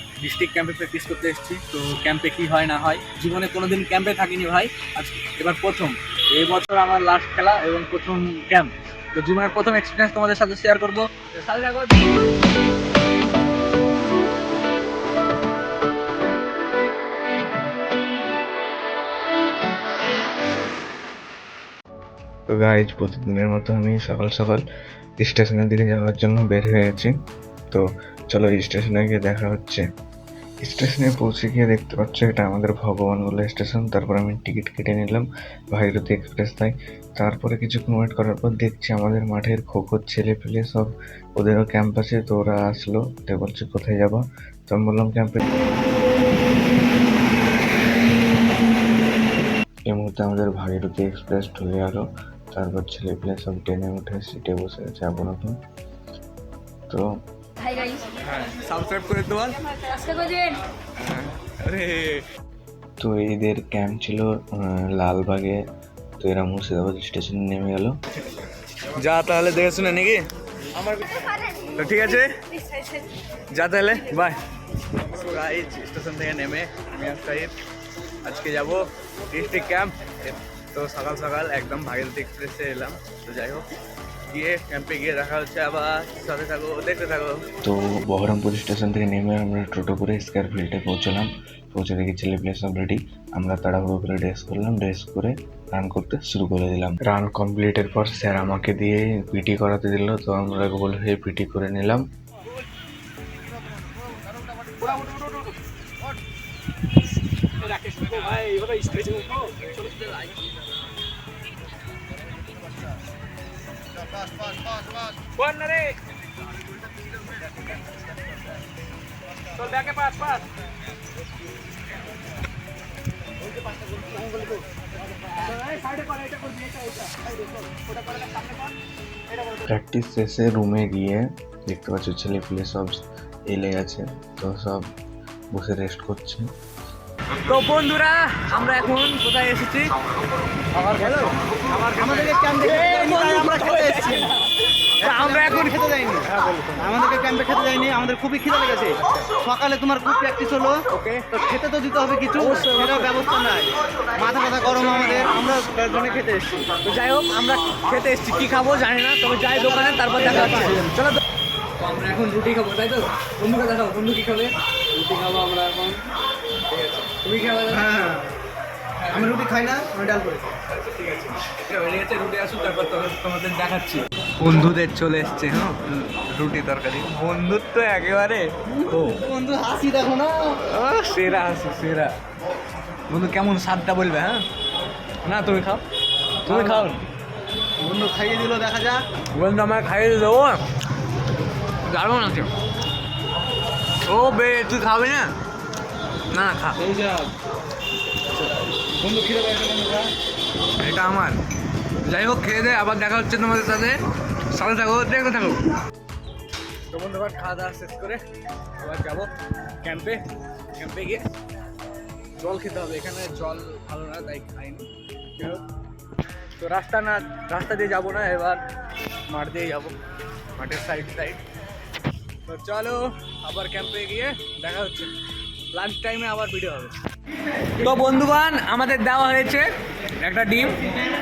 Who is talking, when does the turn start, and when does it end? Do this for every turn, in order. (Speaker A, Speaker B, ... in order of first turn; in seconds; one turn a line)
Speaker A: 0.2-12.1
Speaker B: 22.5-24.6
Speaker B: 25.2-27.1
Speaker B: 27.7-29.8
Speaker B: 30.6-45.6
Speaker B: 49.9-55.6
Speaker A: 58.0-62.2
Speaker B: 63.0-65.6
Speaker B: 66.2-67.9
Speaker A: 68.8-70.2
Speaker A: 70.8-77.5
Speaker A: 78.2-83.7
Speaker A: 84.3-87.4
Speaker B: 87.6-102.0
Speaker A: 104.8-105.5
Speaker A: 107.4-110.3
Speaker A: 115.4-116.0
Speaker A: 117.3-117.6
Speaker A: 119.5-120.4
Speaker A: 124.0-124.5
Speaker A: 125.3-128.7
Speaker B: 129.6-134.8
Speaker B: 135.5-136.5
Speaker A: 137.4-139.9
Speaker A: 140.7-146.9
Speaker C: 141.0-141.3
Speaker C: 142.0-144.3
Speaker C: 145.0-156.7
Speaker A: 150.9-151.3
Speaker A: 152.3-153.2
Speaker A: 154.8-155.3
Speaker A: 156.8-161.2
Speaker C: 159.5-160.8
Speaker A: 161.8-166.1
Speaker A: 166.7-167.9
Speaker C: 167.7-168.3
Speaker A: 169.0-169.4
Speaker C: 169.1-170.5
Speaker A: 170.6-179.2
Speaker C: 179.0-180.6
Speaker A: 180.6-182.1
Speaker A: 183.1-184.4
Speaker A: 185.2-185.8
Speaker A: 186.4-187.0
Speaker C: 186.4-186.9
Speaker C: 187.8-189.0
Speaker A: 189.3-190.6
Speaker A: 191.8-192.5
Speaker A: 194.0-195.3
Speaker A: 196.3-196.9
Speaker A: 199.0-199.5
Speaker C: 199.3-199.9
Speaker A: 200.8-201.4
Speaker A: 202.0-205.7
Speaker A: 206.9-208.2
Speaker A: 208.8-209.3
Speaker A: 209.8-211.2
Speaker A: 212.4-215.6
Speaker A: 216.6-218.6
Speaker A: 219.3-219.9
Speaker A: 220.5-221.4
Speaker A: 222.4-225.1
Speaker A: 225.7-226.9
Speaker A: 227.8-230.8